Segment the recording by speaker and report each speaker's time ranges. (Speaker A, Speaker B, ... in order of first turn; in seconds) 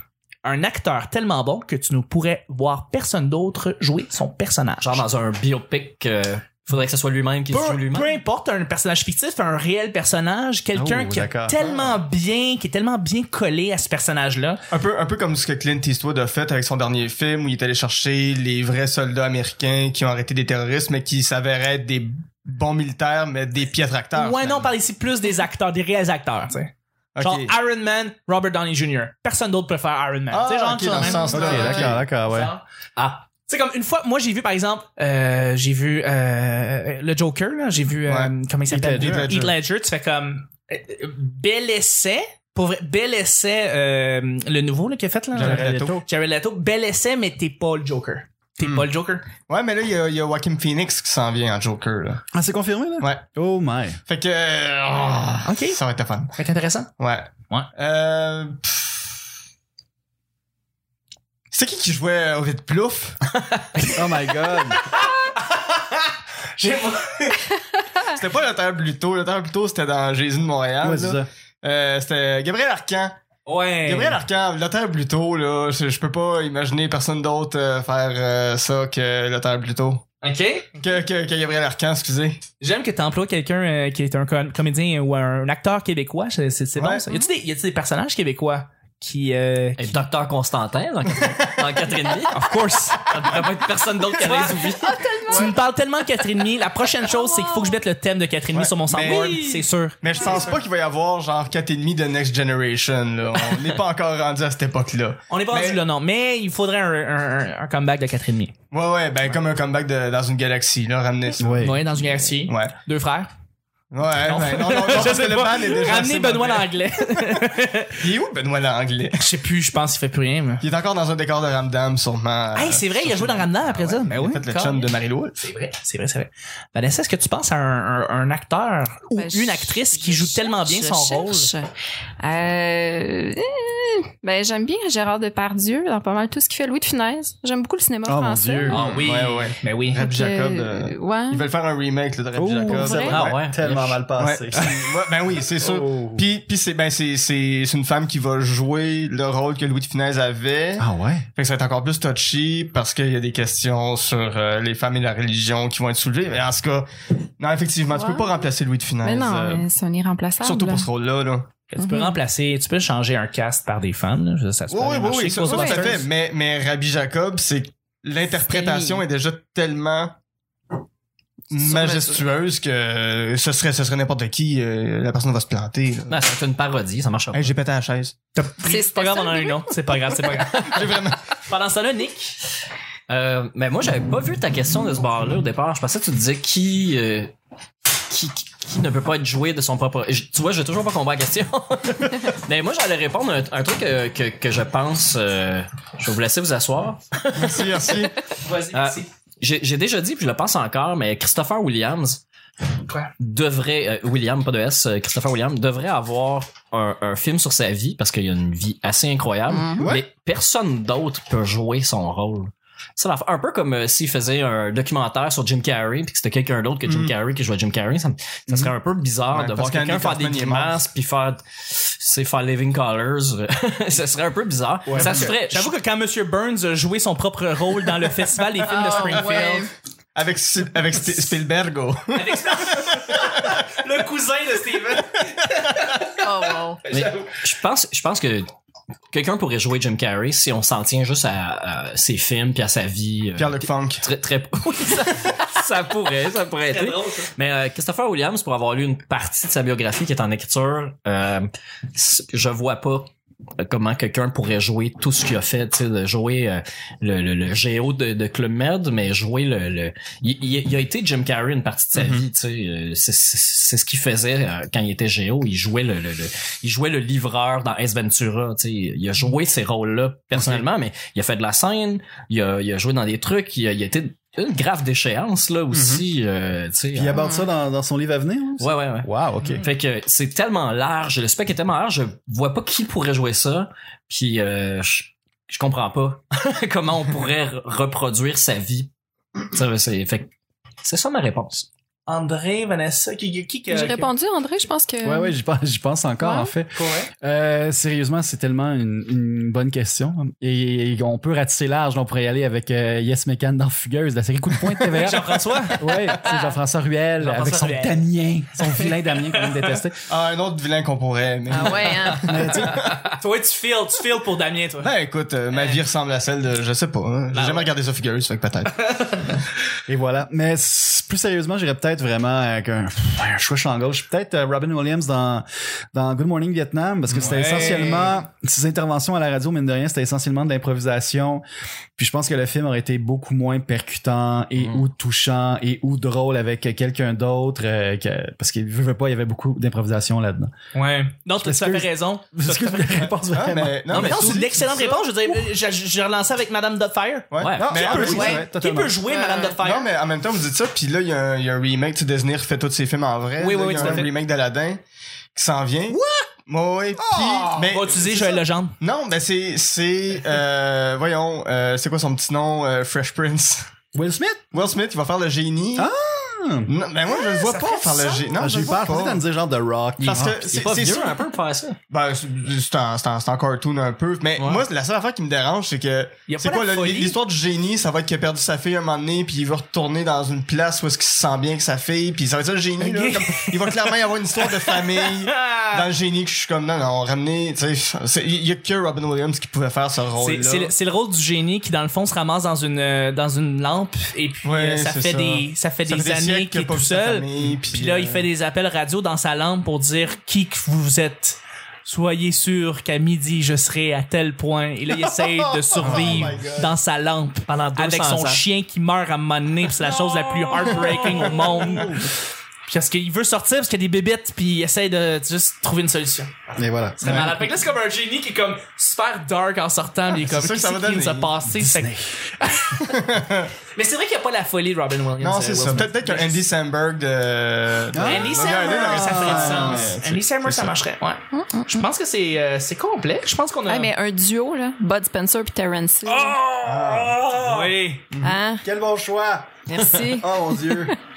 Speaker A: 0.4-5.0, 7.5-14.6, 24.1-32.6, 33.4-49.2, 55.4-55.8, 56.3-56.9, 63.7-67.6, 73.5-74.2, 80.2-81.0, 82.6-90.0, 92.3-93.1, 95.3-100.5, 105.3-108.5, 111.6-113.3, 114.2-118.0, 119.1-120.6, 122.5-131.5, 138.8-140.0, 161.7-166.1, 178.3-182.4, 198.4-199.1, 202.8-203.1, 224.9-229.7, 232.1-237.3, 246.6-247.3, 292.1-294.1, 296.7-297.1, 304.9-306.1, 307.2-309.8, 312.7-314.9, 315.5-315.8, 317.3-317.7, 318.9-319.4, 327.1-328.2, 340.7-343.1, 343.9-349.9, 353.4-354.1, 357.7-358.8, 367.1-368.3, 376.3-377.2, 382.8-385.9, 390.2-412.1, 412.7-423.0, 423.7-426.4, 428.0-433.9, 436.3-436.5, 437.3-438.1
Speaker B: 4.8-8.2, 33.0-33.2, 89.8-95.0, 138.7-139.0, 143.1-144.0, 176.1-177.5, 183.1-187.3, 188.0-197.9, 198.7-202.2, 203.2-225.7, 236.9-238.5, 239.1-277.2, 278.6-279.1, 279.6-288.9, 289.5-290.3, 290.8-291.7, 334.6-334.9, 343.9-344.4, 347.4-347.9, 370.4-371.8, 374.4-374.6, 407.5-408.4
Speaker C: 10.7-11.6, 31.3-32.5, 38.7-39.3, 45.3-46.0, 52.3-54.0, 63.9-64.8, 70.8-71.2, 111.4-111.7, 138.0-138.8, 142.3-144.9, 145.6-146.2, 150.8-151.3, 209.8-210.1, 224.9-225.3, 270.3-270.6, 276.9-279.6, 295.0-310.0, 312.1-312.9, 319.9-331.4, 332.0-340.5, 341.4-345.3, 347.6-349.0, 353.7-354.0, 355.9-356.3, 356.9-357.8, 363.9-364.5, 365.8-366.7, 368.4-370.5, 410.9-412.1, 416.6-417.5, 421.4-422.1, 427.9-429.9, 436.9-437.6, 438.1-440.9
Speaker D: 11.6-12.0, 14.7-24.7, 27.1-27.5, 30.3-32.0, 38.0-38.3, 39.0-39.5, 45.3-46.0, 48.6-48.9, 49.5-52.2, 54.0-56.3, 57.0-59.1, 61.5-63.2, 68.0-73.1, 73.8-80.0, 80.8-82.4, 86.8-87.0, 98.5-105.8, 108.7-111.7, 112.5-112.7, 113.9-116.9, 118.0-119.2, 120.6-125.5, 138.7-143.4, 144.2-156.9, 157.4-159.6, 160.4-161.6, 164.7-170.1, 171.5-176.2, 177.3-178.1, 180.3-181.2, 197.3-198.1, 216.8-217.1, 219.3-220.8, 230.1-233.3, 243.4-244.0, 262.0-262.2, 310.1-313.0, 314.8-318.8, 343.3-344.7, 347.3-348.4, 349.6-354.8, 355.3-363.6, 364.5-365.9, 366.7-369.2, 370.0-371.2, 371.9-390.7, 394.4-398.3, 405.7-406.8, 420.1-421.3, 422.9-423.5, 425.2-430.7, 436.6-437.3
Speaker E: 30.9-31.9, 94.2-95.6, 97.0-97.8, 100.2-100.5, 129.1-131.7, 132.2-138.8, 140.0-141.5, 142.7-143.2, 157.9-158.4, 159.0-160.9, 161.8-162.2, 165.4-166.0, 168.3-169.0, 171.5-172.3, 178.6-179.7, 209.5-209.9, 228.6-229.7, 236.2-236.8, 277.1-277.5, 293.7-295.3, 296.2-296.5, 306.2-306.6, 311.5-312.6, 348.0-348.5, 349.0-349.6, 431.3-431.8, 433.7-436.5, 438.2-438.6, 439.7-441.0